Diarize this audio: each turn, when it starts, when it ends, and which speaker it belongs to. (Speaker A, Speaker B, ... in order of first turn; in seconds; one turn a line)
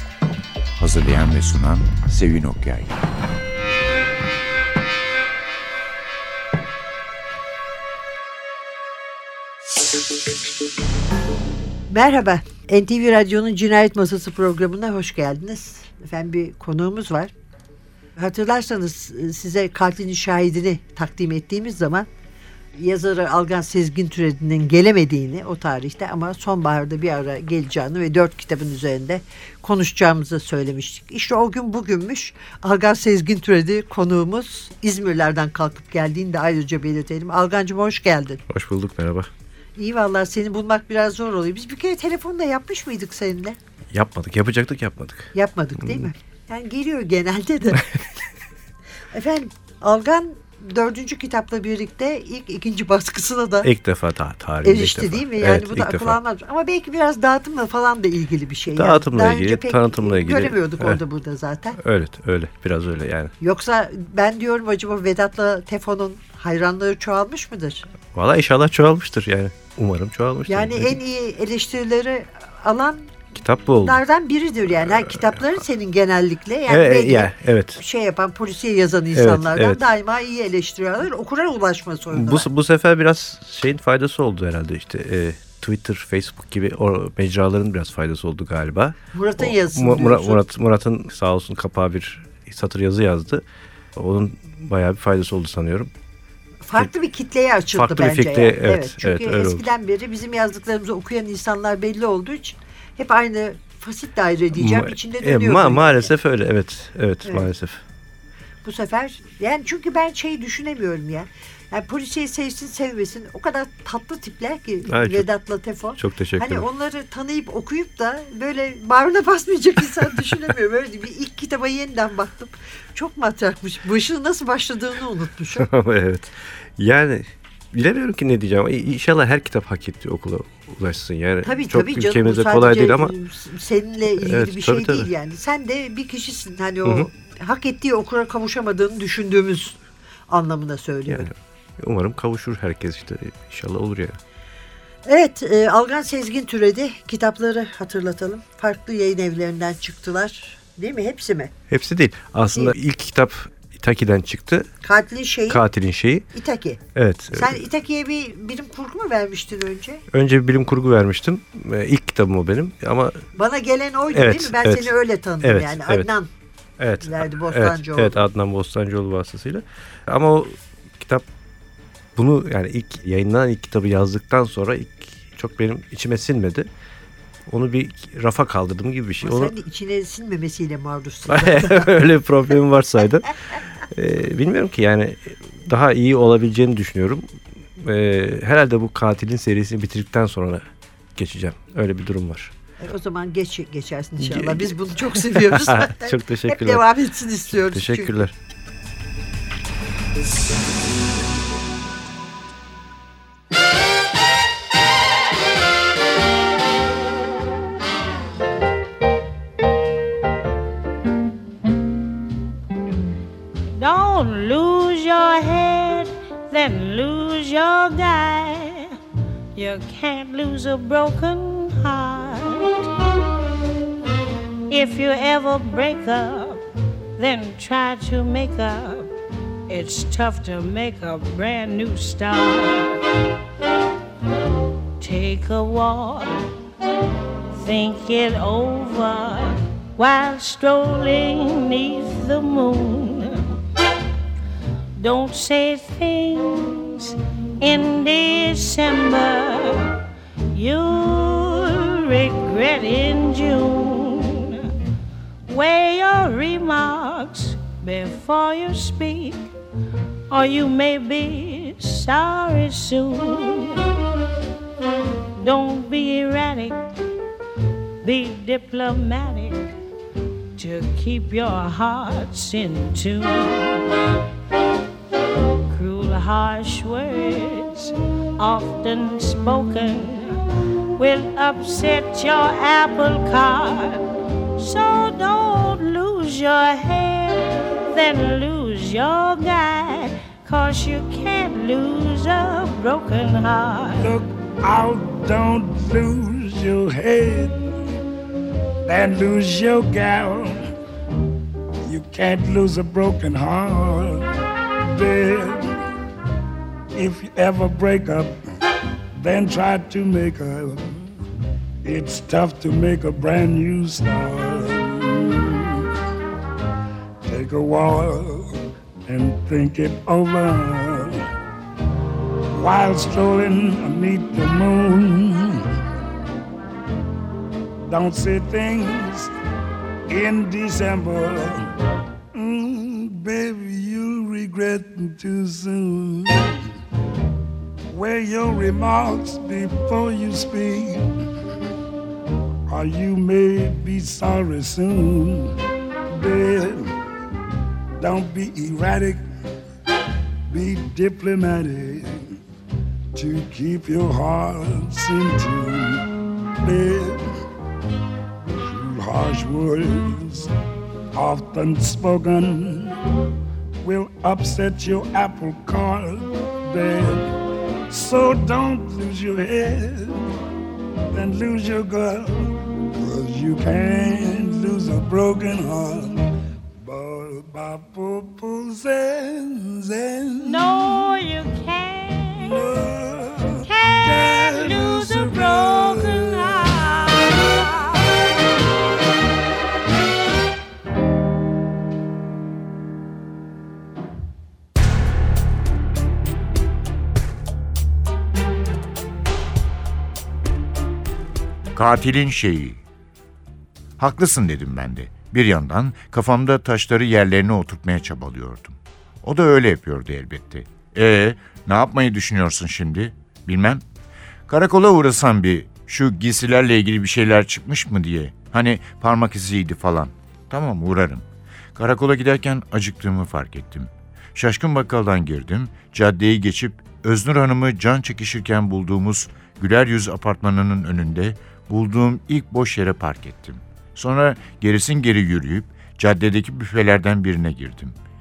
Speaker A: 0.8-3.0
Speaker B: 11.9-17.3
Speaker B: 18.2-22.1
Speaker B: 22.8-38.4
Speaker C: 38.5-39.3
Speaker B: 39.8-43.6
Speaker C: 43.9-45.3
Speaker B: 45.3-47.8
Speaker B: 49.1-53.7
Speaker C: 53.6-56.2
Speaker B: 54.6-61.8
Speaker C: 58.7-61.0
Speaker C: 61.8-63.3
Speaker B: 63.4-67.9
Speaker C: 68.1-71.0
Speaker B: 70.5-73.1
Speaker C: 73.3-74.0
Speaker B: 73.8-82.5
Speaker C: 76.7-77.8
Speaker C: 79.1-79.8
Speaker C: 82.1-93.4
Speaker B: 89.1-90.4
Speaker C: 94.0-95.9
Speaker B: 96.7-106.1
Speaker C: 97.7-99.6
Speaker C: 104.5-107.8
Speaker B: 108.6-125.7
Speaker C: 114.9-115.2
Speaker C: 116.0-116.7
Speaker C: 125.6-133.1
Speaker B: 131.4-139.8
Speaker C: 134.2-135.1
Speaker B: 140.3-141.3
Speaker C: 141.1-144.2
Speaker B: 145.1-151.5
Speaker C: 151.7-154.7
Speaker B: 154.8-155.6
Speaker C: 155.5-156.3
Speaker B: 156.3-156.8
Speaker C: 156.9-157.6
Speaker B: 157.3-160.0
Speaker C: 160.1-163.2
Speaker B: 163.4-166.3
Speaker C: 164.1-166.1
Speaker C: 166.8-171.2
Speaker B: 167.0-168.2
Speaker C: 172.2-176.7
Speaker C: 177.5-179.5
Speaker B: 179.2-181.9
Speaker C: 181.3-183.4
Speaker C: 183.9-187.3
Speaker C: 187.8-190.6
Speaker C: 191.2-192.5
Speaker B: 192.8-198.3
Speaker C: 194.2-196.8
Speaker C: 197.7-198.3
Speaker D: 213.8-219.0
Speaker D: 219.6-222.9
Speaker D: 224.7-226.6
Speaker D: 227.2-229.1
Speaker D: 229.7-233.0
Speaker D: 235.0-236.3
Speaker D: 237.5-243.5
Speaker D: 245.0-254.7
Speaker D: 255.5-259.5
Speaker D: 260.3-263.9
Speaker D: 265.4-266.8
Speaker D: 268.0-269.6
Speaker D: 270.6-274.2
Speaker D: 275.7-280.4
Speaker D: 281.0-284.0
Speaker D: 284.6-294.1
Speaker E: 294.0-297.7
Speaker E: 298.9-300.7
Speaker E: 301.9-304.2
Speaker E: 304.8-305.8
Speaker E: 306.9-308.4
Speaker E: 309.2-311.0
Speaker E: 311.8-315.9
Speaker E: 317.3-321.2
Speaker E: 322.5-325.7
Speaker E: 327.9-329.3
Speaker E: 330.1-331.7
Speaker E: 332.3-336.6
Speaker E: 337.9-341.1
Speaker E: 342.7-345.6
Speaker E: 346.1-346.9
Speaker E: 348.0-349.2
Speaker E: 350.5-352.4
Speaker E: 353.1-356.0
Speaker E: 356.6-357.3
Speaker E: 358.5-360.5
Speaker E: 361.1-363.0
Speaker E: 363.8-367.3
Speaker E: 367.9-370.2
Speaker E: 371.1-376.2
Speaker E: 376.8-381.2
Speaker D: 380.4-382.7
Speaker E: 382.3-387.1
Speaker D: 383.6-388.2
Speaker A: 401.8-402.8
Speaker A: 404.0-413.8
Speaker A: 414.5-437.9